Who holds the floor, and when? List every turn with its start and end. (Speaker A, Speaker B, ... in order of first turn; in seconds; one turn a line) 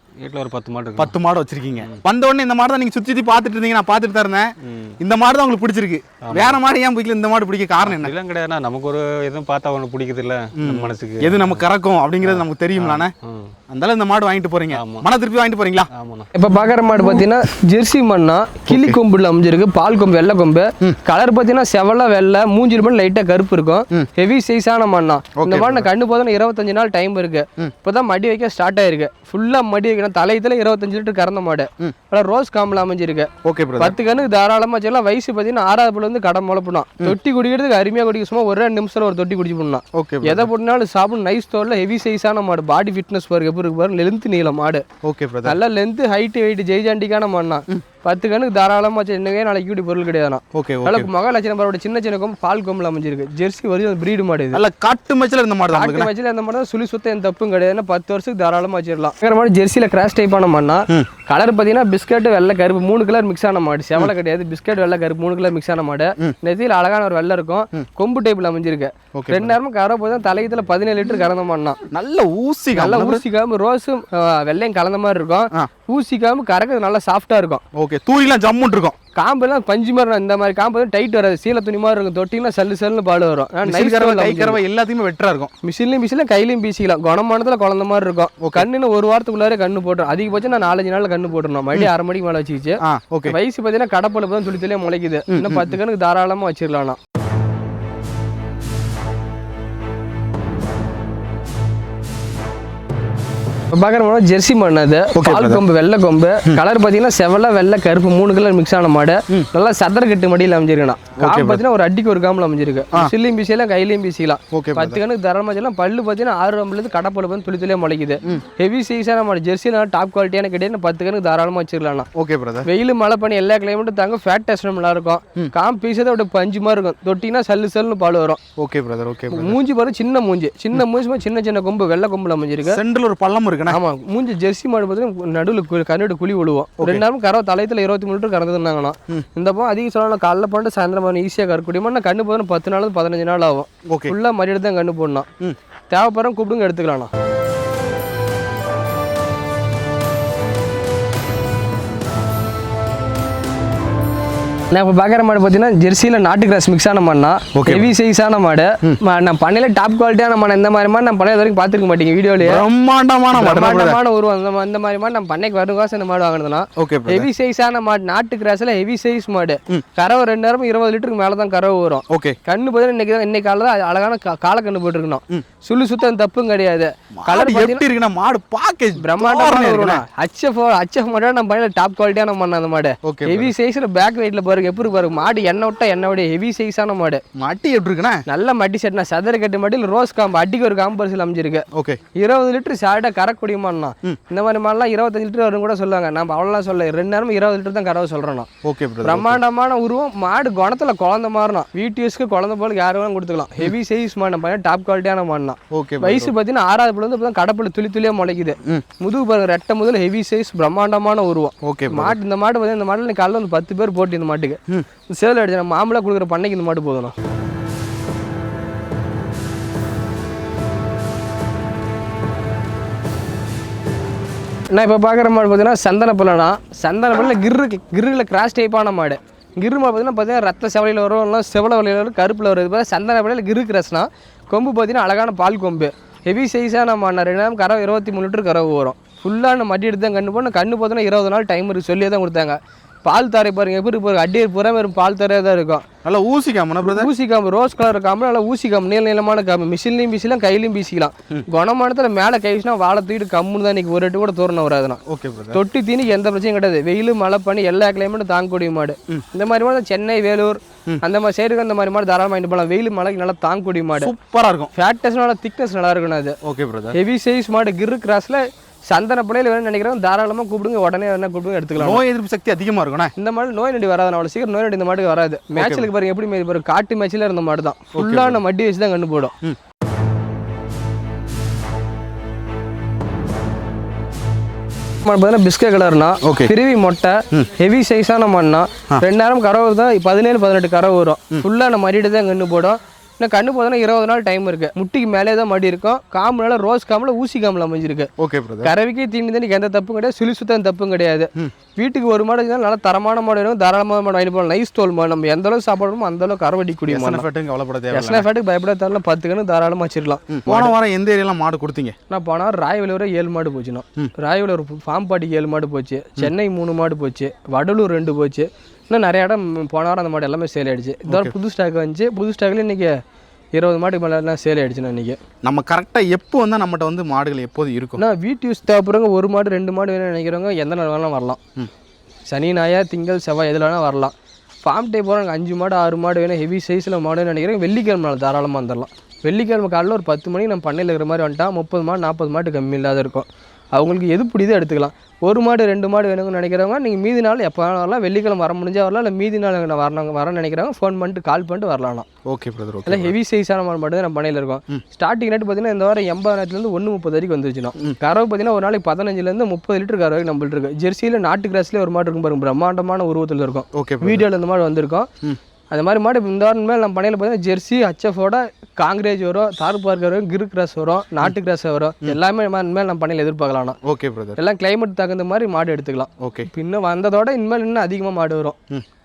Speaker A: 0.2-1.2
Speaker B: 1.0-8.1
Speaker A: 6.2-6.6
Speaker A: 7.8-11.6
Speaker B: 10.6-13.1
Speaker A: 12.2-13.5
Speaker B: 13.7-15.9
Speaker A: 14.7-15.1
Speaker A: 15.9-16.3
Speaker C: 16.3-44.8
Speaker B: 17.0-17.3
Speaker B: 18.7-19.0
Speaker B: 25.4-25.9
Speaker B: 33.4-33.9
Speaker B: 39.9-40.5
Speaker B: 45.0-45.5
Speaker C: 45.4-54.6
Speaker B: 50.5-51.1
Speaker B: 54.5-56.1
Speaker C: 55.7-71.8
Speaker B: 69.1-69.5
Speaker B: 71.9-73.2
Speaker C: 72.7-77.6
Speaker B: 77.7-79.0
Speaker C: 79.1-84.6
Speaker B: 83.6-85.5
Speaker C: 85.6-97.0
Speaker B: 88.4-88.7
Speaker B: 92.8-93.3
Speaker B: 95.3-95.8
Speaker C: 103.7-122.1
Speaker B: 105.1-105.6
Speaker B: 111.2-111.6
Speaker B: 114.5-115.0
Speaker B: 122.1-122.7
Speaker C: 122.6-128.4
Speaker B: 128.6-129.6
Speaker C: 129.3-132.8
Speaker B: 132.6-133.8
Speaker C: 133.7-145.3
Speaker B: 143.9-144.1
Speaker C: 145.9-147.1
Speaker C: 154.7-162.6
Speaker B: 157.5-157.9
Speaker B: 162.4-164.0
Speaker C: 163.3-177.8
Speaker B: 166.8-167.3
Speaker B: 172.1-172.4
Speaker B: 177.2-180.0
Speaker C: 179.0-187.2
Speaker B: 183.0-183.5
Speaker B: 187.4-188.2
Speaker C: 188.3-198.5
Speaker B: 191.7-192.0
Speaker B: 198.6-199.4
Speaker C: 199.0-214.6
Speaker B: 205.7-206.3
Speaker B: 211.6-212.2
Speaker C: 215.1-217.1
Speaker C: 224.7-245.8
Speaker B: 246.0-247.1
Speaker C: 246.8-255.0
Speaker B: 255.1-255.6
Speaker C: 255.5-264.1
Speaker B: 264.0-264.7
Speaker C: 264.8-266.4
Speaker B: 266.4-266.9
Speaker C: 266.9-272.0
Speaker B: 271.8-273.1
Speaker C: 273.2-279.3
Speaker B: 275.5-275.9
Speaker B: 277.9-278.4
Speaker C: 285.1-298.1
Speaker B: 286.2-286.5
Speaker B: 298.2-298.7
Speaker C: 298.6-307.2
Speaker B: 306.9-308.2
Speaker C: 307.9-310.7
Speaker B: 310.3-311.9
Speaker C: 312.1-322.9
Speaker B: 321.1-321.3
Speaker C: 323.5-325.2
Speaker B: 325.4-328.0
Speaker C: 328.0-331.4
Speaker C: 332.3-352.1
Speaker B: 352.3-353.1
Speaker C: 352.9-365.1
Speaker B: 363.7-364.2
Speaker C: 365.7-373.8
Speaker B: 373.8-374.4
Speaker C: 374.4-378.6
Speaker B: 376.2-376.5